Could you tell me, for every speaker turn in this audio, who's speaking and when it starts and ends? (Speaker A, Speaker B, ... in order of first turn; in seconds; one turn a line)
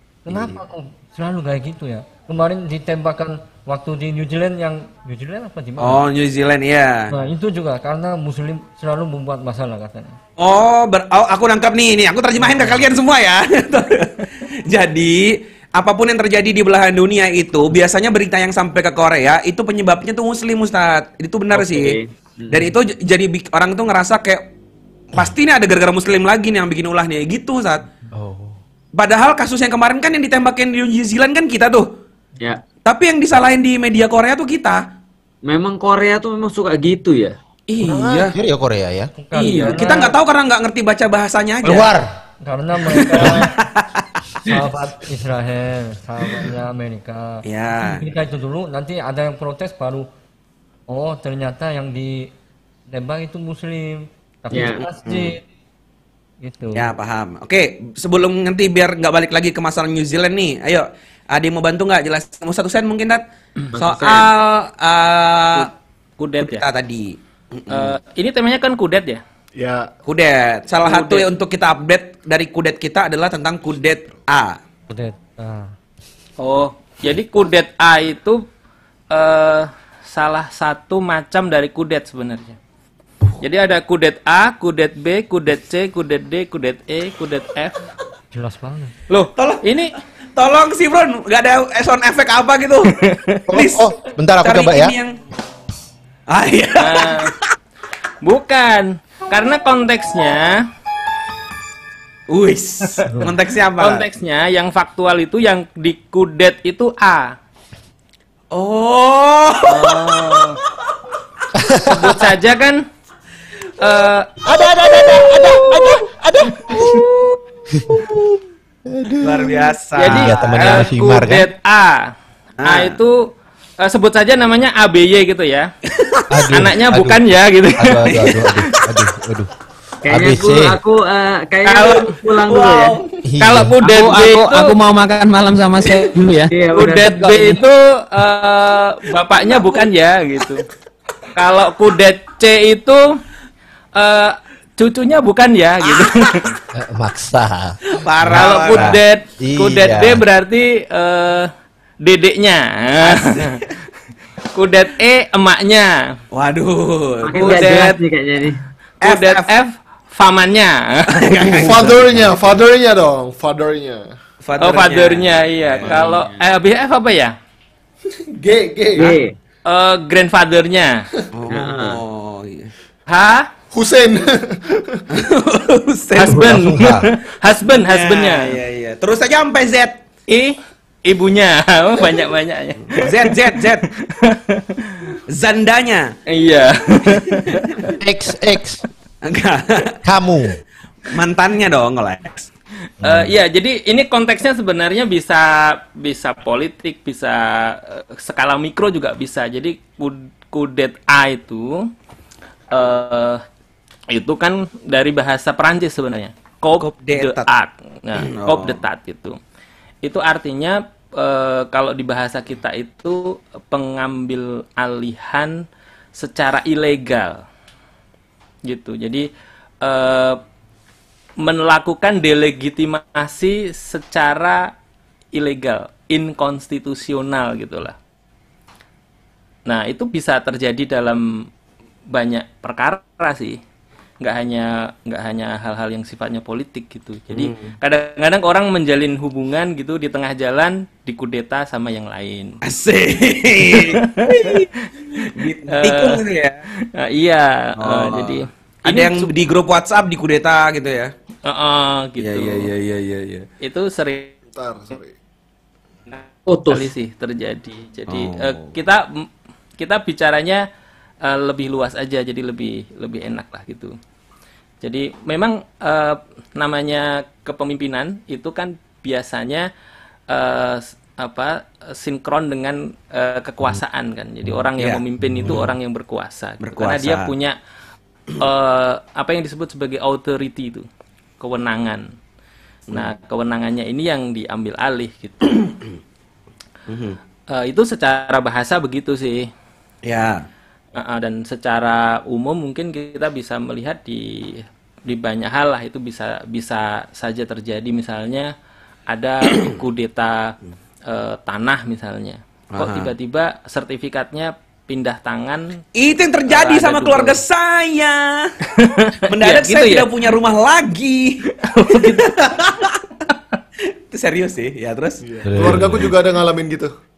Speaker A: 0.2-6.0
Speaker B: 0.3-0.6
Speaker C: 5.8-7.1
Speaker A: 7.1-10.2
Speaker C: 10.4-22.0
Speaker D: 21.5-22.7
Speaker C: 22.5-24.5
Speaker C: 25.1-27.8
Speaker B: 28.2-28.6
Speaker C: 29.0-31.9
Speaker C: 32.9-34.8
Speaker D: 35.5-37.4
Speaker C: 37.7-38.4
Speaker B: 37.8-39.1
Speaker A: 39.2-40.2
Speaker C: 39.3-41.9
Speaker D: 39.4-40.1
Speaker B: 41.6-42.1
Speaker A: 42.4-43.6
Speaker C: 42.9-44.5
Speaker A: 44.4-50.1
Speaker C: 47.5-48.1
Speaker A: 50.9-52.3
Speaker A: 52.9-55.4
Speaker D: 54.5-54.8
Speaker C: 54.5-55.4
Speaker A: 56.4-56.9
Speaker C: 56.8-63.2
Speaker D: 63.8-64.3
Speaker C: 63.8-65.7
Speaker E: 66.2-66.7
Speaker C: 66.4-68.0
Speaker E: 67.7-69.2
Speaker F: 69.6-69.9
Speaker C: 70.1-74.6
Speaker E: 70.8-71.3
Speaker A: 74.9-75.7
Speaker E: 76.4-78.4
Speaker E: 79.1-82.6
Speaker E: 83.4-87.8
Speaker A: 88.3-88.9
Speaker E: 89.1-89.9
Speaker C: 89.4-89.7
Speaker C: 90.4-92.9
Speaker E: 93.0-93.4
Speaker B: 93.5-94.9
Speaker C: 93.5-95.1
Speaker C: 96.3-97.4
Speaker E: 96.8-97.3
Speaker E: 98.2-100.6
Speaker C: 102.3-104.1
Speaker E: 103.8-107.3
Speaker C: 108.5-110.9
Speaker E: 109.7-110.6
Speaker B: 111.6-112.3
Speaker E: 111.9-112.8
Speaker E: 113.8-114.3
Speaker B: 114.4-117.1
Speaker B: 117.8-118.2
Speaker B: 118.9-121.5
Speaker C: 119.2-120.9
Speaker E: 120.0-122.1
Speaker C: 122.6-123.0
Speaker E: 122.7-123.3
Speaker E: 123.8-125.7
Speaker C: 125.9-126.3
Speaker B: 126.3-127.3
Speaker E: 126.5-128.6
Speaker B: 127.8-129.5
Speaker D: 130.1-133.0
Speaker B: 130.1-130.8
Speaker E: 131.7-132.1
Speaker C: 132.2-133.1
Speaker B: 133.3-133.8
Speaker E: 133.4-134.8
Speaker G: 133.8-136.6
Speaker D: 136.5-137.6
Speaker E: 136.7-140.7
Speaker C: 139.3-139.8
Speaker E: 141.3-143.2
Speaker E: 144.0-146.5
Speaker C: 145.8-146.5
Speaker B: 146.7-150.2
Speaker C: 147.9-149.0
Speaker E: 148.3-151.5
Speaker E: 152.0-153.6
Speaker C: 153.0-153.6
Speaker E: 154.5-156.2
Speaker C: 156.3-157.7
Speaker D: 157.2-158.6
Speaker E: 157.4-158.0
Speaker C: 159.0-159.5
Speaker E: 159.0-162.1
Speaker C: 161.4-161.7
Speaker F: 161.6-164.1
Speaker C: 164.4-166.0
Speaker E: 164.6-167.4
Speaker D: 165.9-166.4
Speaker F: 168.4-169.2
Speaker D: 169.0-169.3
Speaker E: 169.7-171.1
Speaker C: 171.3-172.7
Speaker D: 171.5-172.0
Speaker E: 173.1-173.5
Speaker F: 173.7-175.0
Speaker C: 175.1-176.6
Speaker E: 176.2-178.6
Speaker B: 176.3-177.1
Speaker C: 177.7-180.1
Speaker E: 180.3-185.2
Speaker C: 183.0-183.9
Speaker C: 185.3-186.1
Speaker E: 186.3-187.7
Speaker C: 187.5-187.9
Speaker B: 188.0-188.8
Speaker C: 189.2-190.0
Speaker B: 190.0-190.6
Speaker C: 191.1-192.5
Speaker B: 193.0-193.3
Speaker E: 193.0-201.8
Speaker E: 202.7-203.4
Speaker E: 204.1-209.4
Speaker C: 206.8-207.5
Speaker C: 208.2-208.8
Speaker E: 210.0-215.6
Speaker E: 216.2-217.4
Speaker E: 218.7-219.3
Speaker E: 219.8-220.4
Speaker E: 221.4-224.7
Speaker E: 225.3-228.0
Speaker E: 229.7-231.5
Speaker E: 232.1-233.6
Speaker E: 234.2-242.6
Speaker C: 237.3-237.7
Speaker C: 242.6-246.6
Speaker E: 243.7-244.8
Speaker E: 245.7-246.2
Speaker E: 246.9-249.3
Speaker C: 247.8-251.1
Speaker E: 251.5-252.7
Speaker C: 252.2-253.5
Speaker E: 253.6-254.3
Speaker F: 254.5-255.1
Speaker E: 256.1-259.3
Speaker D: 256.5-256.9
Speaker C: 258.1-258.8
Speaker E: 259.8-260.6
Speaker E: 261.2-264.0
Speaker E: 264.8-269.7
Speaker E: 270.3-277.6
Speaker C: 274.8-275.7
Speaker C: 276.6-277.3
Speaker E: 278.4-280.9
Speaker E: 281.4-282.1
Speaker E: 282.9-285.5
Speaker C: 286.9-287.2
Speaker E: 287.5-289.5
Speaker C: 290.1-290.4
Speaker E: 290.9-298.5
Speaker E: 299.1-300.5
Speaker E: 301.1-305.8
Speaker C: 302.7-303.1
Speaker C: 306.0-308.5
Speaker E: 306.5-307.4
Speaker E: 308.8-310.1
Speaker C: 309.3-313.0
Speaker E: 311.6-312.3
Speaker C: 314.1-315.8
Speaker F: 315.2-316.9
Speaker B: 315.5-316.1